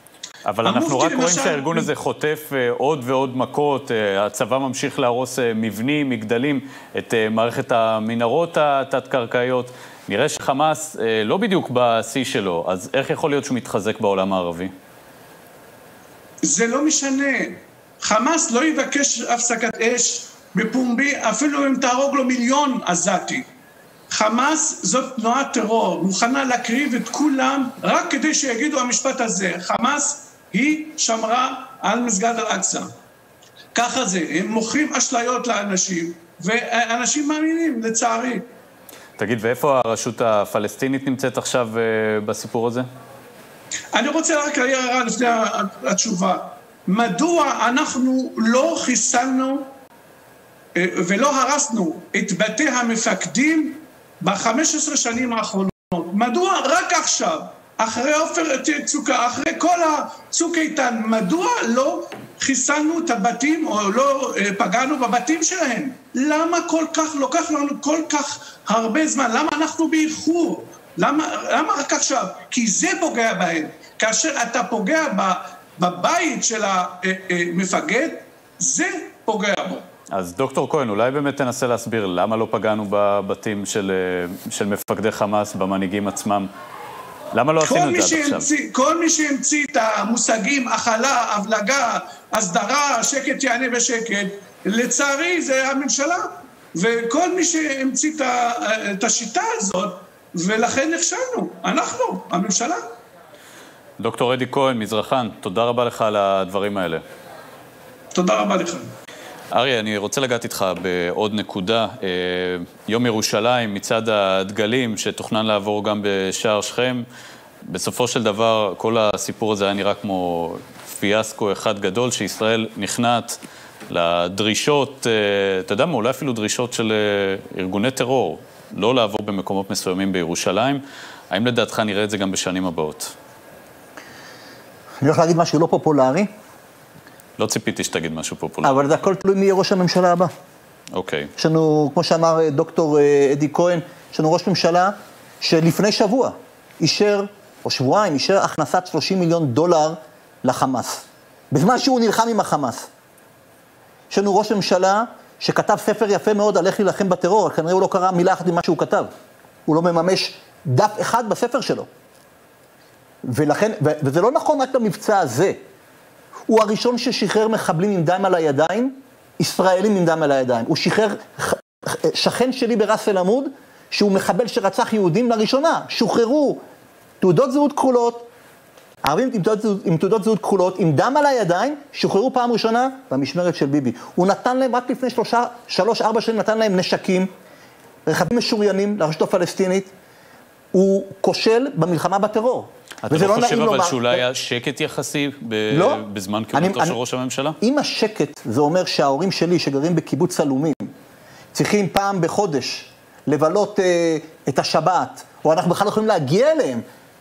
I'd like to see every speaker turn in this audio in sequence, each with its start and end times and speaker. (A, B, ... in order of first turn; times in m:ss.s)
0:00.5-0:14.7 A
0:00.6-0:01.9 B
0:16.4-0:23.4 B
0:24.1-0:32.9 B
0:33.8-0:38.4 B
0:39.2-0:42.9 A
0:44.0-0:49.6 B
0:50.8-1:19.8 B
1:20.1-1:26.5 A
1:27.3-1:28.5 A
1:27.6-1:42.8 B
1:44.0-1:47.0 A
1:48.2-1:48.9 B
1:49.5-1:57.0 A
1:57.7-2:03.4 A
2:03.9-2:13.1 A
2:15.0-2:16.3 C
2:17.4-2:18.8 A
2:18.6-2:20.3 C
2:20.9-2:21.3 A
2:21.4-2:32.9 C
2:34.1-2:39.1 C
2:39.7-2:41.9 C
2:43.2-2:45.6 C
2:46.5-2:56.6 C
2:57.2-2:58.3 C
2:59.0-3:07.3 C
3:08.1-3:09.9 C
3:10.7-3:14.2 C
3:13.1-3:17.6 A
3:15.7-3:16.0 C
3:16.5-3:17.0 C
3:17.6-3:20.9 C
3:21.5-3:26.8 C